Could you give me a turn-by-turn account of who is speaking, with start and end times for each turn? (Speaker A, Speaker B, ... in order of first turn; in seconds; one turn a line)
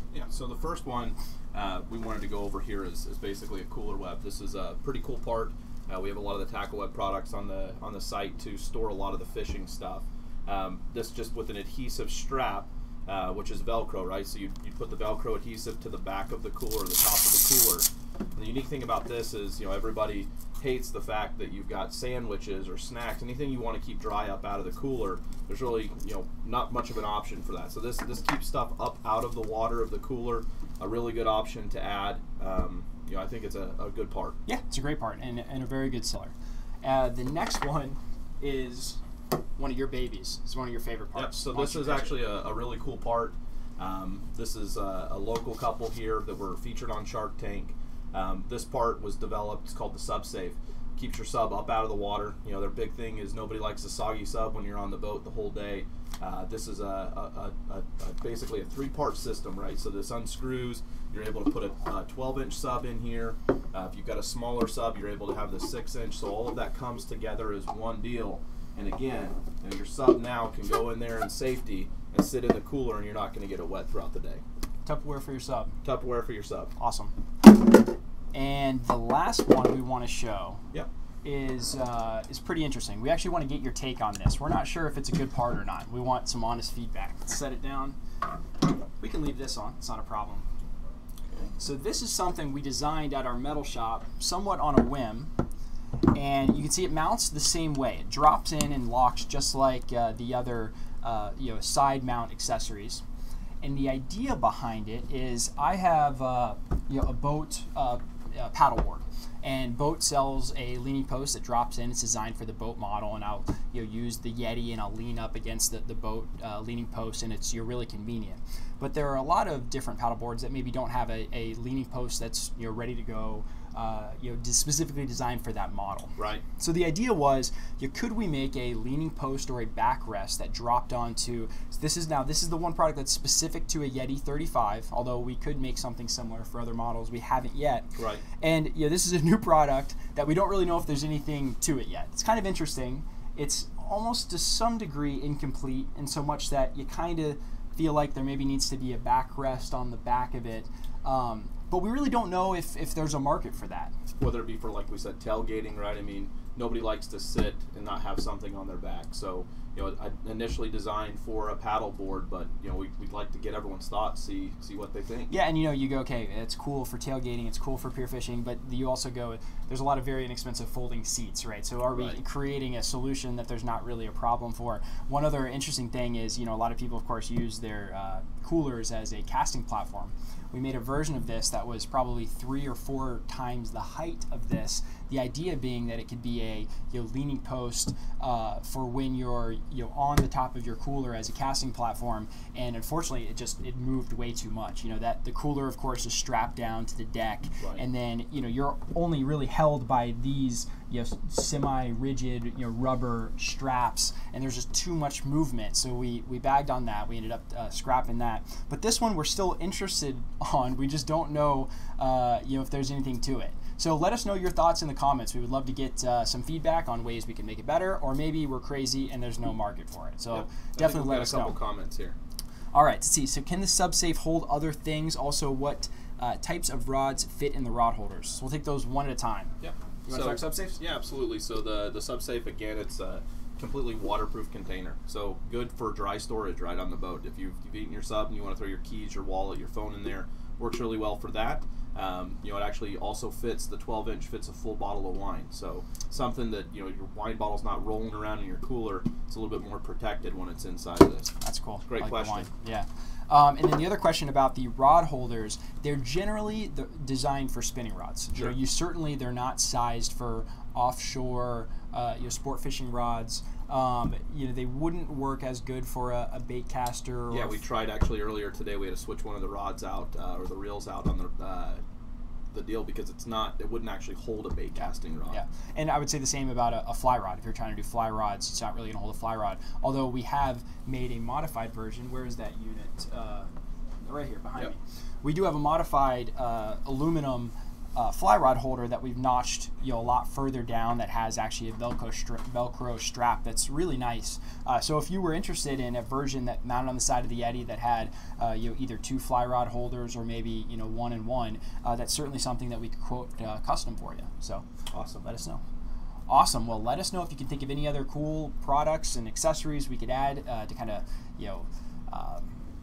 Speaker A: 0.1-34.4
Speaker B: 34.5-39.0
Speaker B: 39.6-42.2
Speaker A: 41.1-74.4
Speaker B: 74.8-75.7
Speaker A: 75.8-76.7
Speaker B: 76.8-77.1
Speaker B: 78.3-80.6
Speaker B: 81.2-88.0
Speaker B: 89.0-90.4
Speaker B: 91.6-95.3
Speaker B: 96.1-103.0
Speaker B: 103.6-137.9
Speaker A: 126.2-126.4
Speaker A: 137.9-138.2
Speaker B: 138.4-153.9
Speaker A: 154.2-165.3
Speaker B: 165.3-221.6
Speaker A: 171.9-172.2
Speaker A: 220.3-222.2
Speaker B: 222.7-229.5
Speaker A: 229.6-251.3
Speaker B: 230.1-230.8
Speaker B: 251.4-267.6
Speaker A: 251.8-252.5
Speaker A: 267.3-271.8
Speaker A: 272.5-275.4
Speaker B: 275.3-283.5
Speaker B: 284.0-304.6
Speaker A: 304.9-305.3
Speaker B: 305.2-305.6
Speaker B: 306.3-312.6